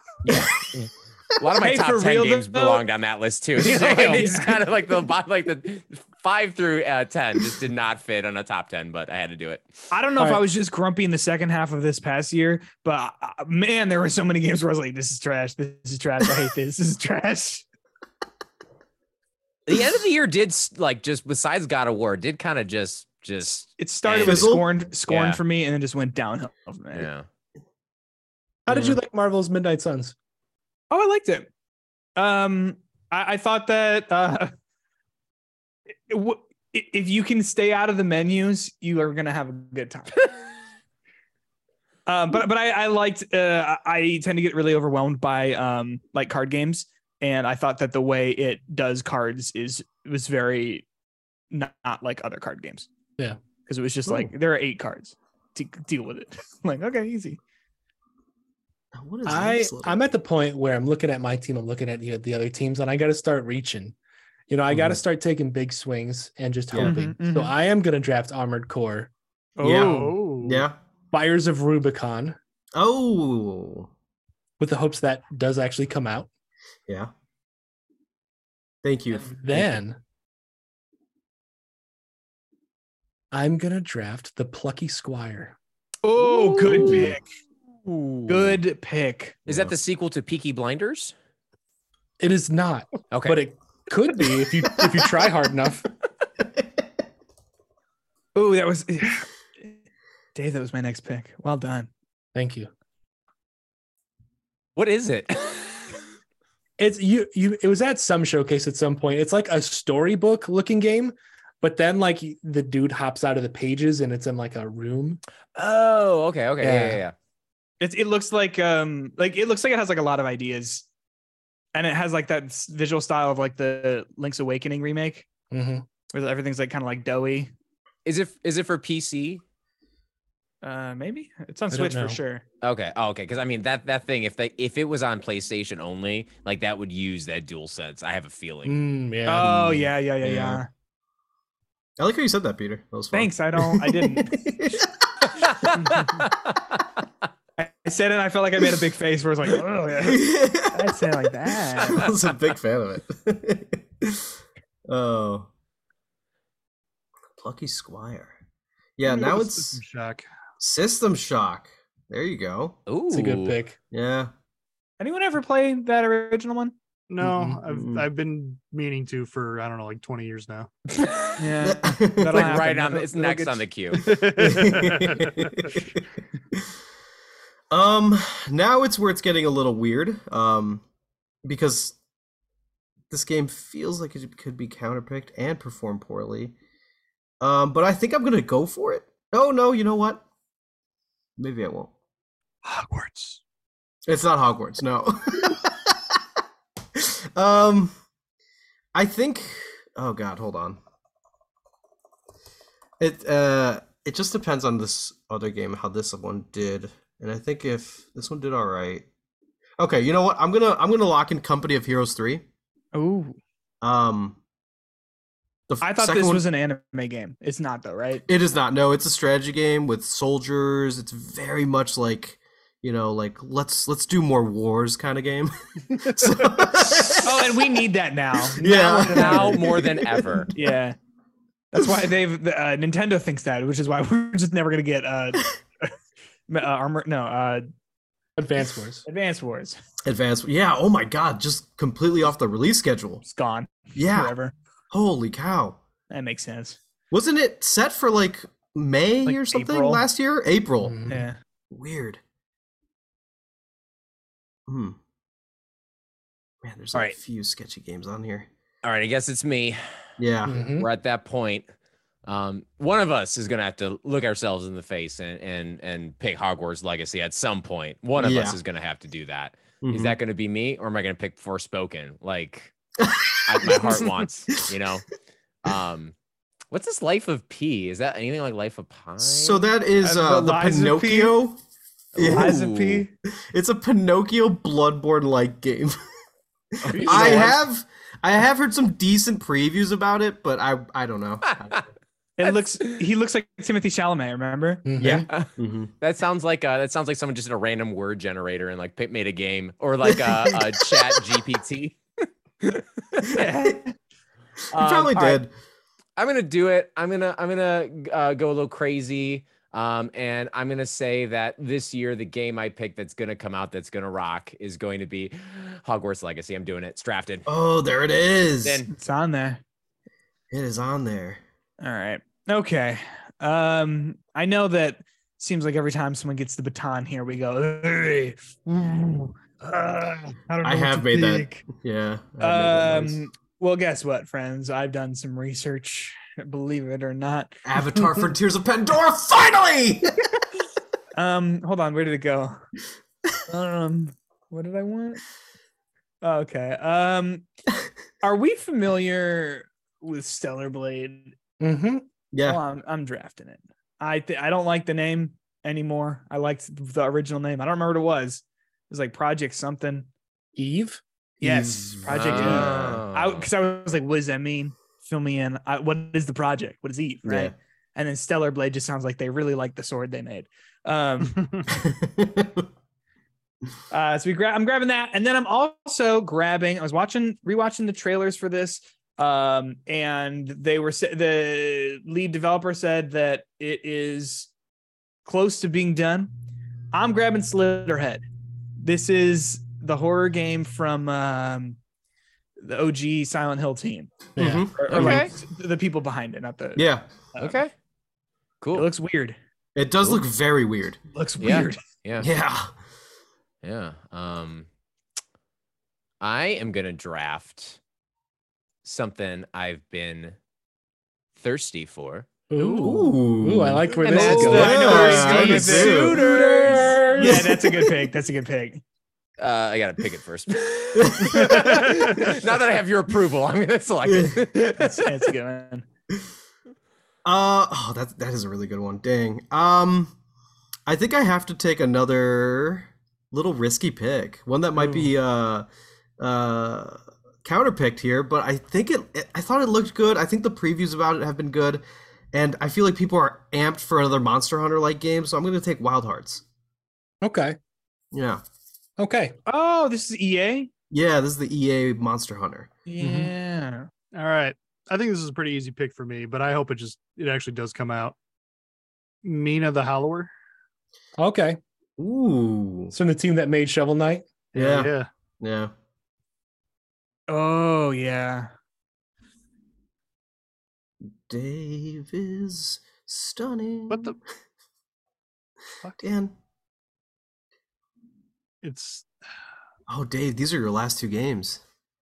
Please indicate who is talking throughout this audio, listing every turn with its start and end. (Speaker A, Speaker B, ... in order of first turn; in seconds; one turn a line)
Speaker A: 0.2-9.9
Speaker B: 1.6-2.8
Speaker B: 3.6-4.6
Speaker B: 9.9-17.6
Speaker A: 19.6-24.5
Speaker B: 23.4-27.1
Speaker C: 24.2-24.7
Speaker A: 25.1-25.4
Speaker A: 26.9-27.2
Speaker D: 28.6-30.1
Speaker C: 28.7-29.0
Speaker B: 30.9-31.5
Speaker B: 32.2-34.5
Speaker B: 36.1-40.1
Speaker B: 42.1-50.9
Speaker B: 51.5-52.9
Speaker B: 53.6-57.4
Speaker D: 54.1-54.3
Speaker C: 58.9-60.1
Speaker D: 59.2-64.0
Speaker D: 64.5-69.1
Speaker C: 64.7-65.0
Speaker C: 66.7-67.0
Speaker B: 66.8-67.6
Speaker B: 69.6-70.2
Speaker C: 69.6-70.7
Speaker E: 69.6-70.7
Speaker D: 71.1-72.4
Speaker C: 72.7-73.9
Speaker D: 74.6-76.3
Speaker C: 78.8-79.8
Speaker D: 79.1-80.0
Speaker D: 83.3-85.6
Speaker B: 86.0-87.2
Speaker A: 86.2-87.2
Speaker D: 86.8-87.1
Speaker A: 87.8-88.6
Speaker B: 88.3-89.4
Speaker C: 89.5-89.7
Speaker A: 89.5-91.1
Speaker D: 92.2-95.9
Speaker A: 93.1-93.4
Speaker B: 98.3-99.8
Speaker B: 100.3-101.9
Speaker D: 102.3-102.7
Speaker A: 104.8-106.0
Speaker D: 106.8-115.2
Speaker A: 115.5-117.1
Speaker D: 116.6-117.0
Speaker B: 117.8-120.9
Speaker B: 121.7-125.2
Speaker D: 125.5-125.8
Speaker B: 126.1-127.5
Speaker A: 128.1-129.4
Speaker B: 130.6-132.4
Speaker D: 131.7-132.2
Speaker A: 132.6-138.8
Speaker D: 138.6-139.9
Speaker B: 139.2-140.7
Speaker C: 140.2-140.6
Speaker C: 142.0-145.5
Speaker B: 143.1-144.4
Speaker A: 145.6-146.3
Speaker B: 147.6-152.1
Speaker C: 150.0-151.0
Speaker C: 151.8-154.3
Speaker C: 154.9-155.5
Speaker C: 157.4-158.4
Speaker C: 159.0-159.8
Speaker E: 159.0-160.3
Speaker C: 160.6-162.8
Speaker A: 162.9-163.6
Speaker D: 163.1-163.8
Speaker C: 163.9-164.3
Speaker B: 165.0-166.7
Speaker E: 167.1-170.7
Speaker D: 167.2-167.6
Speaker C: 167.7-168.1
Speaker A: 170.9-171.4
Speaker B: 171.4-173.6
Speaker C: 171.6-172.6
Speaker A: 172.2-174.0
Speaker E: 174.0-175.4
Speaker C: 174.1-176.0
Speaker C: 177.7-180.8
Speaker C: 181.4-181.9
Speaker C: 183.1-186.5
Speaker C: 187.4-190.2
Speaker C: 191.4-191.9
Speaker E: 192.6-193.4
Speaker C: 194.1-196.2
Speaker C: 196.9-197.9
Speaker C: 198.9-200.8
Speaker C: 203.0-209.0
Speaker C: 209.8-212.4
Speaker B: 212.9-213.4
Speaker C: 213.8-214.4
Speaker C: 215.7-216.4
Speaker B: 215.8-218.2
Speaker C: 218.3-227.7
Speaker B: 227.2-229.6
Speaker C: 228.5-230.6
Speaker A: 229.0-230.5
Speaker B: 230.5-230.9
Speaker B: 231.7-235.5
Speaker B: 236.5-237.7
Speaker D: 238.4-239.0
Speaker B: 239.1-239.8
Speaker C: 240.1-243.2
Speaker B: 243.2-244.5
Speaker C: 243.9-244.3
Speaker C: 244.9-245.8
Speaker B: 246.1-246.8
Speaker C: 247.1-252.2
Speaker B: 249.2-250.0
Speaker D: 250.8-251.2
Speaker B: 251.1-251.3
Speaker C: 254.7-255.0
Speaker C: 256.6-258.5
Speaker A: 258.8-259.8
Speaker C: 260.2-260.6
Speaker D: 260.4-260.9
Speaker A: 260.7-261.6
Speaker A: 262.2-272.7
Speaker C: 268.2-268.6
Speaker C: 269.8-270.1
Speaker C: 273.0-274.2
Speaker A: 273.5-275.1
Speaker A: 275.6-276.1
Speaker A: 276.7-279.6
Speaker C: 279.2-281.6
Speaker B: 280.0-281.4
Speaker A: 282.1-283.1
Speaker C: 282.1-282.6
Speaker B: 282.3-283.1
Speaker C: 283.5-286.0
Speaker C: 286.8-291.9
Speaker A: 286.9-287.6
Speaker B: 286.9-287.6
Speaker B: 292.4-294.9
Speaker D: 294.8-295.3
Speaker C: 295.0-295.9
Speaker A: 295.0-302.0
Speaker C: 300.1-300.8
Speaker A: 302.6-303.3
Speaker C: 303.2-303.8
Speaker B: 303.3-303.9
Speaker A: 304.7-305.4
Speaker C: 304.8-305.5
Speaker A: 306.2-317.5
Speaker C: 317.5-318.8
Speaker B: 318.9-319.6
Speaker C: 320.5-321.4
Speaker B: 321.8-331.6
Speaker C: 330.6-333.2
Speaker B: 332.4-338.3
Speaker C: 337.6-340.2
Speaker B: 341.1-342.6
Speaker B: 343.5-345.2
Speaker B: 346.2-347.4
Speaker B: 348.2-351.3
Speaker D: 351.6-352.0
Speaker C: 352.3-352.6
Speaker B: 352.4-360.1
Speaker D: 360.5-361.0
Speaker C: 361.4-363.0
Speaker B: 361.4-371.5
Speaker A: 362.1-363.5
Speaker C: 367.2-367.5
Speaker C: 371.7-372.7
Speaker B: 373.9-384.5
Speaker B: 385.2-386.3
Speaker B: 386.9-388.2
Speaker B: 388.8-391.8
Speaker B: 392.6-394.1
Speaker C: 394.4-395.2
Speaker D: 394.4-395.2
Speaker B: 394.8-397.6
Speaker A: 394.9-395.3
Speaker C: 396.8-397.1
Speaker A: 397.4-397.7
Speaker A: 398.6-398.9
Speaker B: 398.7-399.4
Speaker C: 399.8-401.0
Speaker B: 401.1-401.8
Speaker A: 401.4-402.3
Speaker C: 402.2-402.7
Speaker A: 403.6-404.6
Speaker A: 406.2-407.8
Speaker A: 408.8-410.4
Speaker A: 411.3-412.8
Speaker D: 412.5-417.4
Speaker C: 412.8-417.8
Speaker A: 414.0-417.4
Speaker B: 414.1-416.0
Speaker B: 417.1-418.8
Speaker A: 419.4-425.1
Speaker C: 420.9-421.9
Speaker C: 424.0-424.4
Speaker B: 424.8-425.9
Speaker C: 427.2-430.1
Speaker C: 430.9-435.7
Speaker B: 434.8-435.1
Speaker C: 436.2-446.4
Speaker D: 447.2-447.6
Speaker C: 448.1-448.4
Speaker D: 449.0-449.4
Speaker B: 449.4-450.7
Speaker C: 450.9-452.7
Speaker B: 452.9-453.9
Speaker D: 453.0-453.3
Speaker E: 454.1-458.1
Speaker E: 459.2-460.3
Speaker D: 461.2-461.6
Speaker C: 462.0-462.9
Speaker D: 462.9-464.3
Speaker E: 464.5-465.1
Speaker C: 464.5-465.7
Speaker B: 467.3-468.5
Speaker C: 471.3-474.1
Speaker E: 473.9-474.2
Speaker C: 476.0-476.3
Speaker E: 478.6-479.1
Speaker C: 479.9-481.6